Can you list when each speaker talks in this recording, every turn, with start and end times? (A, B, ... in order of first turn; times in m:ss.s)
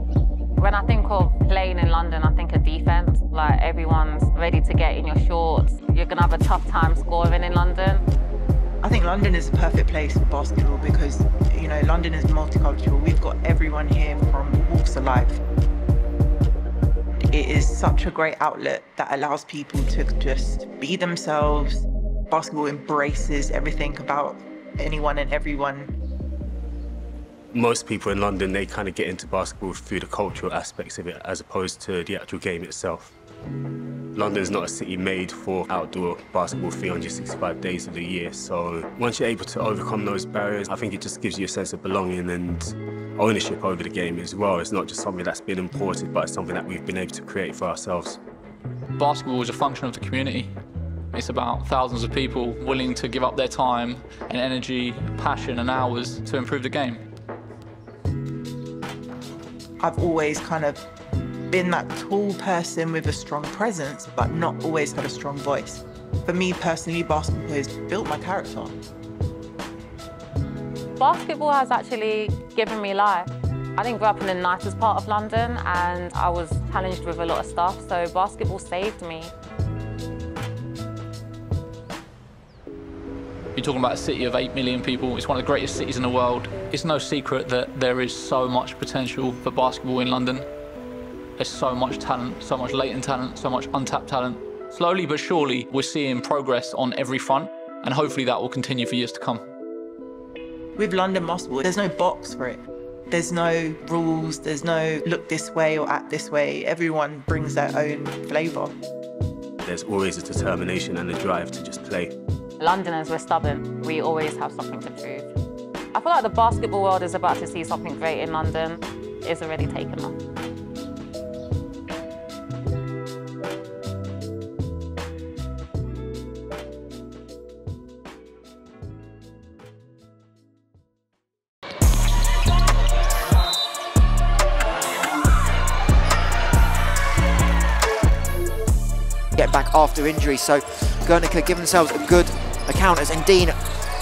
0:00.6-0:08.0 A
0:08.8-0:15.4 B
0:17.2-0:26.0 B
0:27.5-0:33.1 C
0:34.1-0:48.2 C
0:49.0-0:50.5 D
0:51.1-0:57.0 D
0:59.8-1:00.9 B
1:01.5-1:08.8 B
1:11.0-1:19.3 A
1:23.6-1:30.5 D
1:31.4-1:39.5 D
1:40.8-1:48.8 B
1:49.6-1:52.1 C
1:52.6-1:55.3 A
1:55.9-2:00.2 A
2:19.3-2:23.6 E